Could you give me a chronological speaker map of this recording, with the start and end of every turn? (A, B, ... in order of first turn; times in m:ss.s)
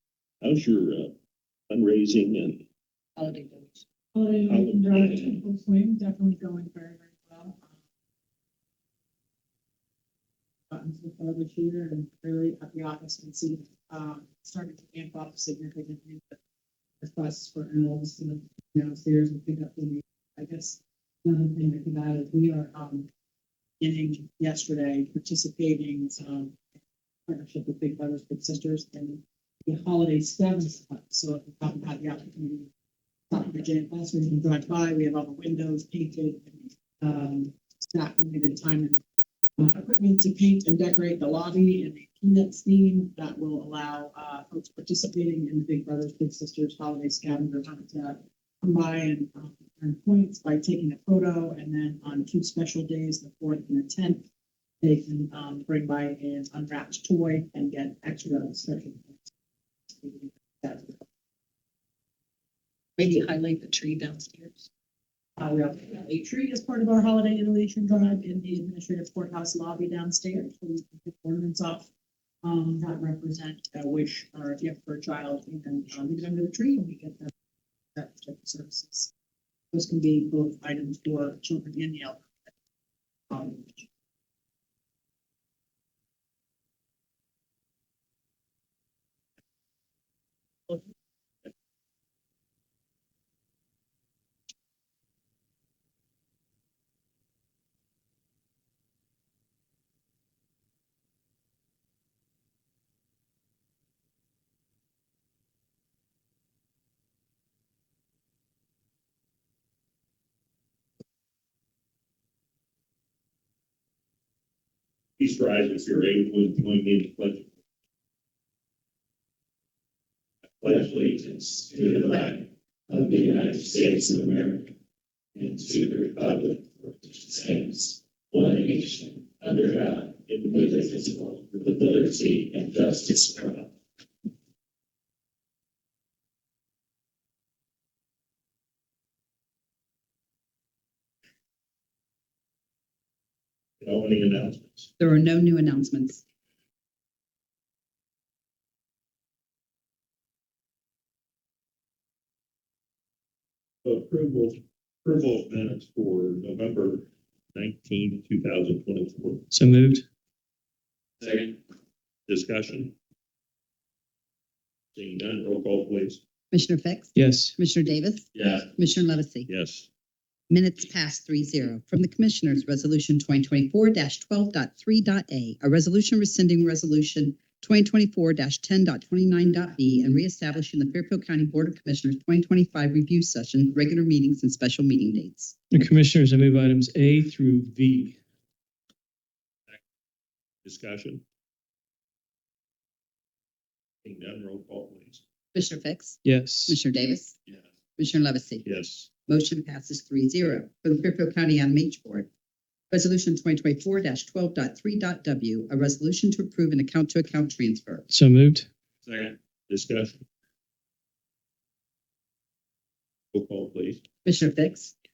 0:00.4-0:01.1 A
0:01.7-0:02.6 A
0:03.2-0:03.8 B
0:04.1-0:07.8 C
0:04.4-0:05.3 A
0:10.7-0:16.4 C
0:17.0-0:23.1 C
0:23.8-0:26.6 C
0:27.3-0:32.7 C
0:33.3-0:39.0 C
0:39.6-0:54.2 C
0:54.8-0:59.3 C
0:59.9-1:01.1 C
1:03.0-1:04.6 B
1:05.4-1:11.9 C
1:12.4-1:17.3 C
1:17.9-1:19.1 C
1:19.7-1:22.5 C
1:23.3-1:23.8 C
1:55.2-1:57.5 A
2:00.6-2:04.7 A
2:05.4-2:13.7 A
2:23.8-2:24.9 A
2:25.0-2:26.2 D
2:33.8-2:39.4 A
2:39.5-2:40.0 E
2:42.3-2:42.9 A
2:44.9-2:46.2 A
2:46.5-2:49.5 D
2:47.1-2:47.5 E
2:49.5-2:49.9 A
2:50.5-3:05.5 D
3:05.7-3:08.2 E
3:10.6-3:11.2 A
3:14.0-3:15.2 A
3:15.5-3:17.4 D
3:16.2-3:16.8 E
3:18.0-3:18.6 D
3:18.6-3:19.1 A
3:19.3-3:22.3 D
3:22.9-3:28.0 D
3:28.1-3:28.7 E
3:29.7-3:30.2 A
3:33.3-3:34.0 A
3:34.2-3:34.9 D